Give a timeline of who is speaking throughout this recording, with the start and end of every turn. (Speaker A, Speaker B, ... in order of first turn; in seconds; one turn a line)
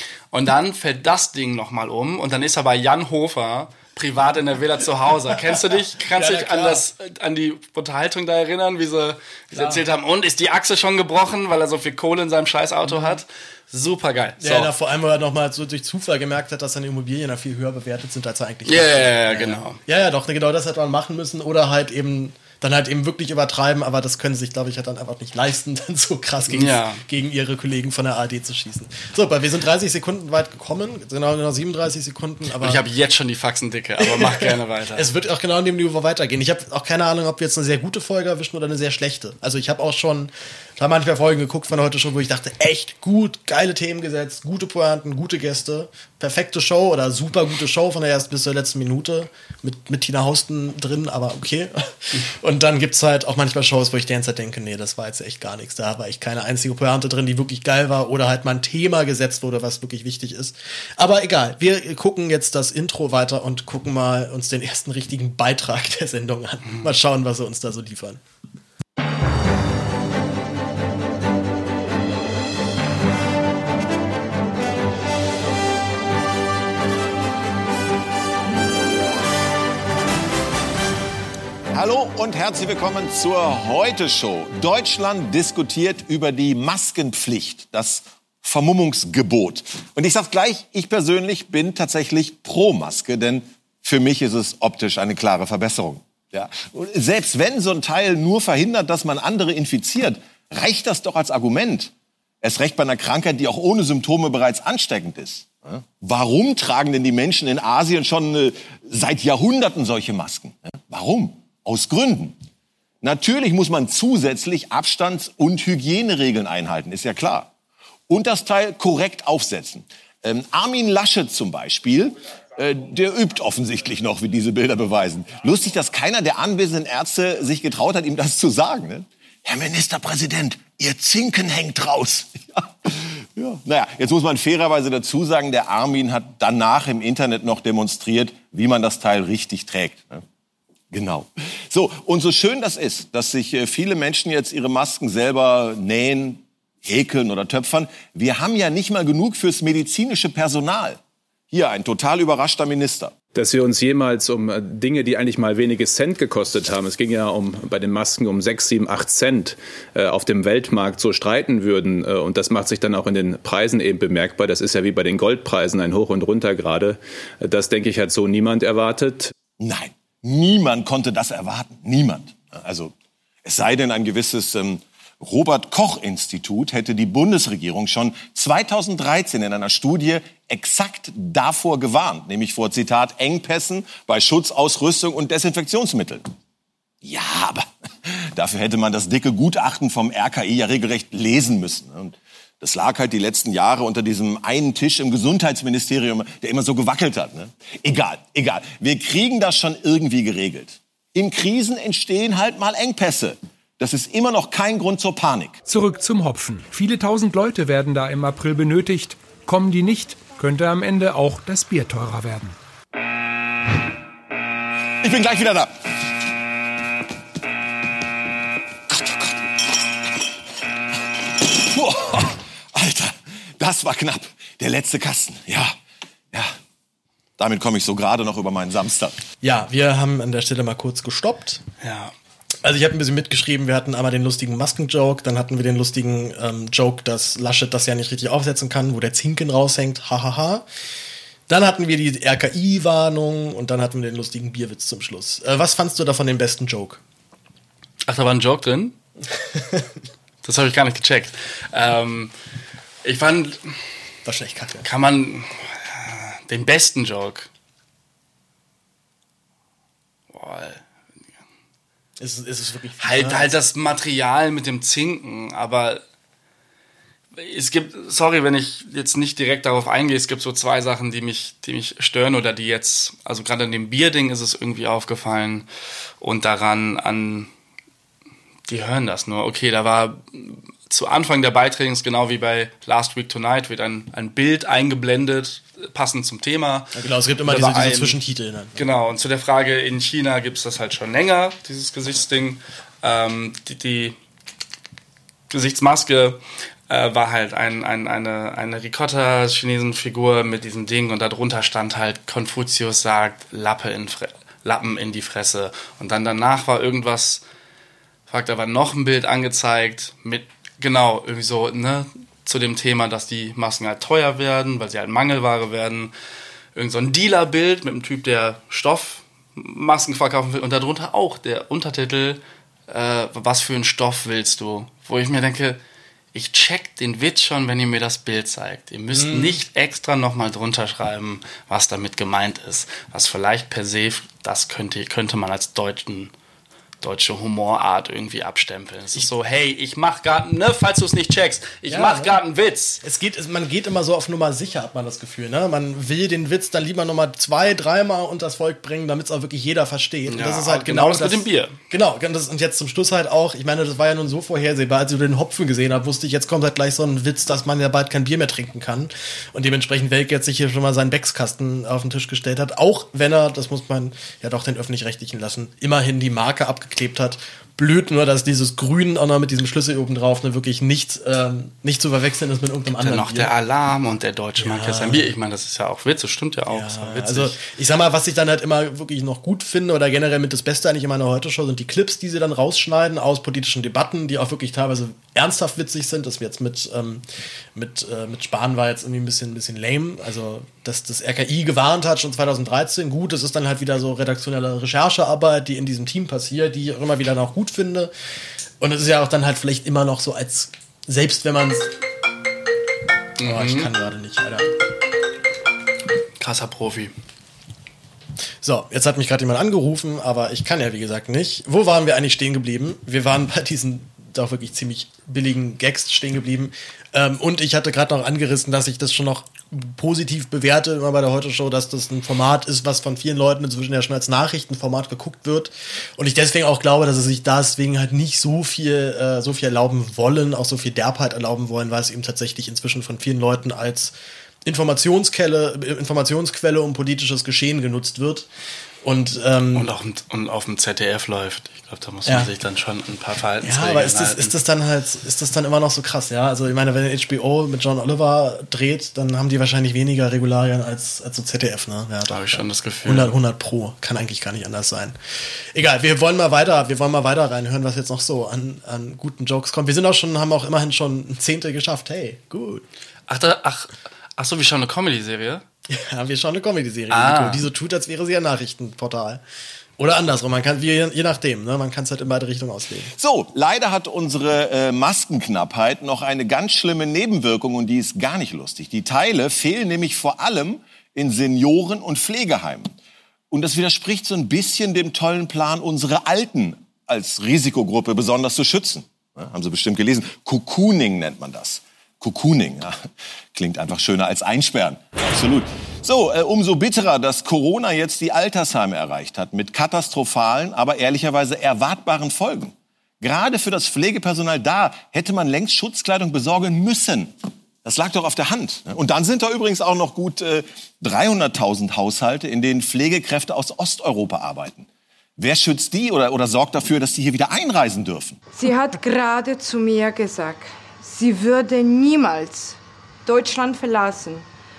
Speaker A: 0.3-14.7
Speaker B: 6.1-6.8
Speaker B: 9.5-9.8
Speaker B: 12.9-13.2
Speaker B: 14.4-32.8
Speaker A: 18.7-19.8
Speaker A: 26.5-27.0
Speaker A: 32.6-35.1
Speaker B: 34.0-68.2
Speaker C: 81.7-101.9
Speaker C: 102.4-112.4
Speaker C: 113.0-117.5
Speaker C: 118.1-140.2
Speaker C: 140.9-151.0
Speaker C: 151.5-153.1
Speaker D: 153.3-169.3
Speaker C: 169.6-172.9
Speaker C: 173.4-186.3
Speaker C: 187.0-205.6
Speaker E: 205.7-212.5
Speaker C: 215.0-215.7
Speaker C: 218.9-219.4
Speaker C: 221.4-225.8
Speaker C: 227.4-229.2
Speaker B: 229.4-231.6
Speaker A: 231.8-232.1
Speaker B: 232.6-240.7
Speaker B: 241.5-247.0
Speaker A: 248.1-249.0
Speaker B: 249.5-249.9
Speaker A: 250.4-252.3
Speaker A: 253.0-253.8
Speaker B: 254.2-254.9
Speaker A: 254.8-257.5
Speaker A: 260.3-260.8
Speaker B: 262.2-263.5
Speaker A: 263.0-266.0
Speaker A: 267.4-275.7
Speaker A: 276.2-277.5
Speaker A: 278.7-286.9
Speaker B: 286.9-288.8
Speaker A: 287.4-288.2
Speaker A: 288.8-294.2
Speaker A: 295.5-307.4
Speaker A: 308.3-316.1
Speaker A: 316.8-325.8
Speaker A: 326.3-336.3
Speaker B: 329.1-329.6
Speaker A: 337.0-343.0
Speaker B: 341.9-342.4
Speaker B: 343.0-373.5
Speaker A: 350.3-351.8
Speaker A: 373.0-377.6
Speaker B: 374.6-375.3
Speaker B: 376.7-398.1
Speaker B: 398.8-401.9
Speaker A: 403.4-403.9
Speaker B: 403.4-404.7
Speaker A: 406.4-407.1
Speaker B: 408.6-434.1
Speaker B: 434.6-438.5
Speaker B: 439.0-439.9
Speaker A: 439.7-444.6
Speaker B: 443.6-455.2
Speaker A: 452.3-453.3
Speaker B: 455.7-462.9
Speaker A: 463.3-465.6
Speaker B: 465.9-469.4
Speaker A: 467.1-467.7
Speaker B: 470.0-473.1
Speaker C: 473.2-482.9
Speaker C: 483.5-507.3
Speaker C: 507.9-518.4
Speaker F: 518.6-524.5